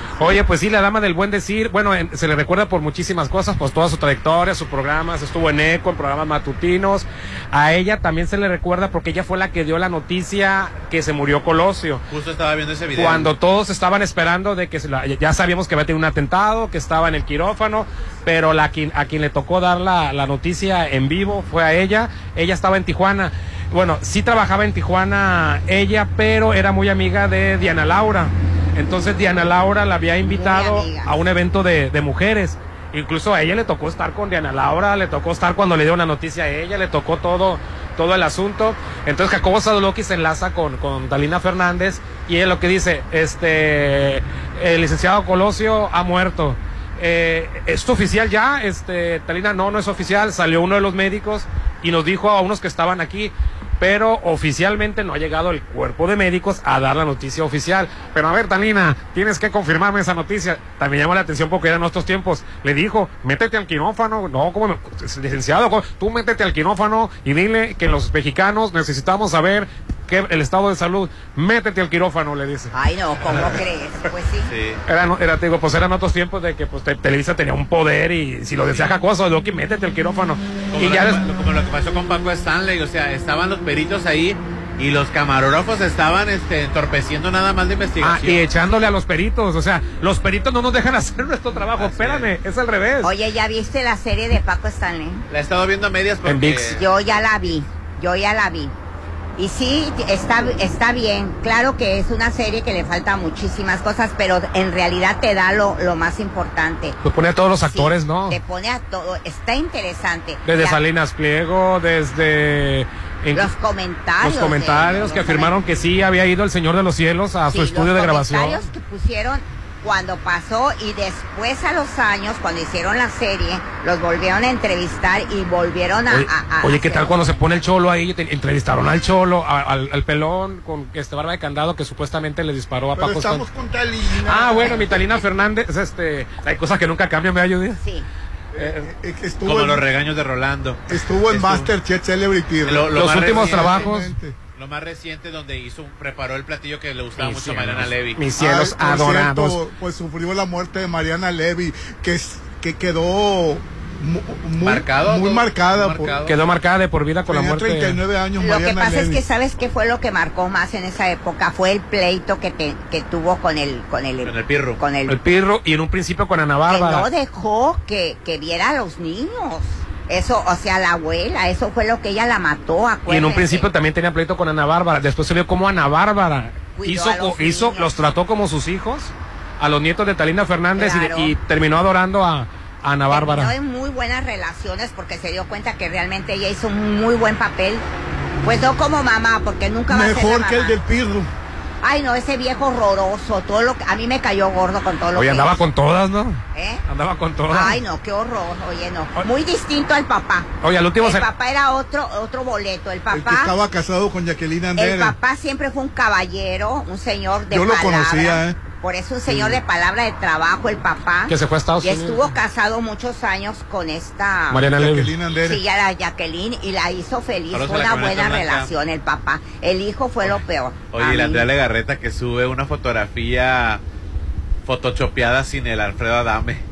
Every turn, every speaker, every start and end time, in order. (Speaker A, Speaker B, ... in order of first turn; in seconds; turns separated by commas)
Speaker A: 0.2-12.0, Speaker B: 12.1-13.3, Speaker A: 12.9-72.7, Speaker C: 30.2-31.1, Speaker C: 72.7-74.5, Speaker B: 74.5-74.8, Speaker A: 74.9-81.2, Speaker B: 80.7-88.5, Speaker A: 88.0-93.1, Speaker B: 91.8-92.3, Speaker C: 93.0-95.2, Speaker B: 95.3-96.9, Speaker A: 96.2-96.8, Speaker C: 96.7-98.7, Speaker C: 99.4-107.0, Speaker A: 107.0-108.4, Speaker C: 107.6-110.8, Speaker A: 110.5-113.5, Speaker C: 113.3-115.5, Speaker A: 114.2-118.7, Speaker C: 117.5-127.1, Speaker A: 126.1-133.4, Speaker D: 133.0-134.9, Speaker A: 134.2-137.8, Speaker C: 137.8-138.1, Speaker D: 138.5-139.8, Speaker A: 138.6-138.9, Speaker B: 139.4-141.7, Speaker D: 140.9-144.4, Speaker B: 142.7-143.9, Speaker A: 143.0-144.1, Speaker B: 144.6-148.2, Speaker A: 147.2-149.6, Speaker D: 148.4-156.2, Speaker B: 154.6-156.3, Speaker A: 156.3-158.0, Speaker D: 157.3-159.2, Speaker C: 158.4-165.2, Speaker B: 164.2-164.8, Speaker A: 165.1-167.1, Speaker C: 166.7-173.7, Speaker A: 173.1-183.5, Speaker C: 176.8-178.0, Speaker C: 180.8-181.3, Speaker C: 183.1-187.8, Speaker C: 188.4-190.8, Speaker D: 189.9-191.3, Speaker C: 191.8-195.6, Speaker A: 195.2-197.8, Speaker C: 196.6-196.8, Speaker C: 197.5-203.5, Speaker A: 200.6-201.2, Speaker D: 203.1-205.2, Speaker C: 204.8-214.6, Speaker D: 207.5-208.6, Speaker A: 211.3-212.2, Speaker A: 214.5-215.1, Speaker D: 214.8-215.6, Speaker C: 215.4-221.4, Speaker B: 217.5-218.7, Speaker B: 220.9-223.8, Speaker B: 224.7-226.6